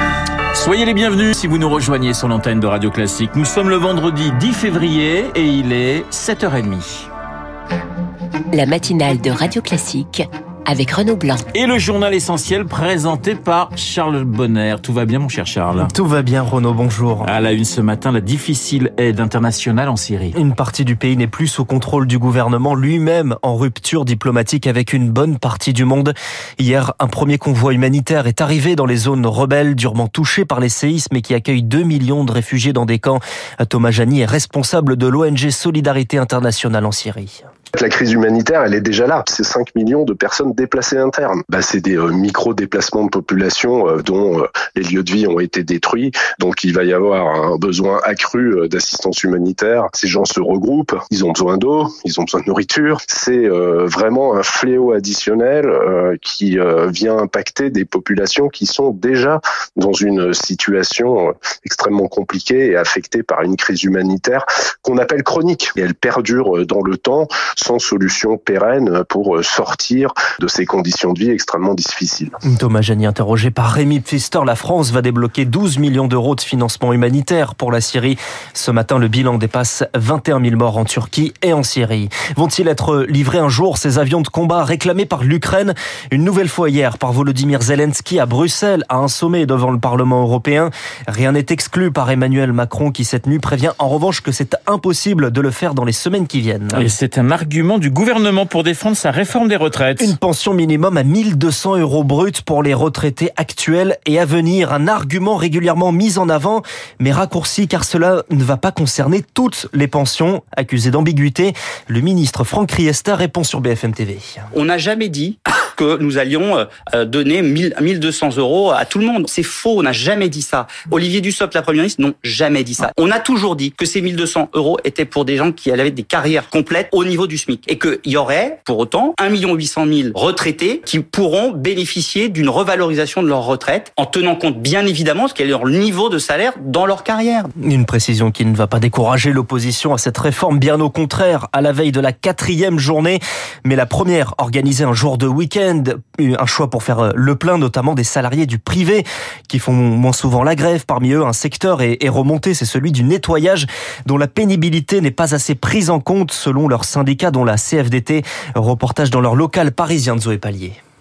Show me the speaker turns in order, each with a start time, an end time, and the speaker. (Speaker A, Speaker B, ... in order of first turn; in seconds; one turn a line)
Speaker A: 0.5-7.1
Speaker B: 8.5-11.4
Speaker A: 11.5-15.9
Speaker C: 15.8-17.3
Speaker A: 17.2-20.4
Speaker C: 20.3-37.5
Speaker D: 37.7-72.4
Speaker C: 72.4-96.9
Speaker A: 96.7-100.1
Speaker C: 100.0-114.4
Speaker E: 114.5-137.5
Speaker C: 137.6-160.8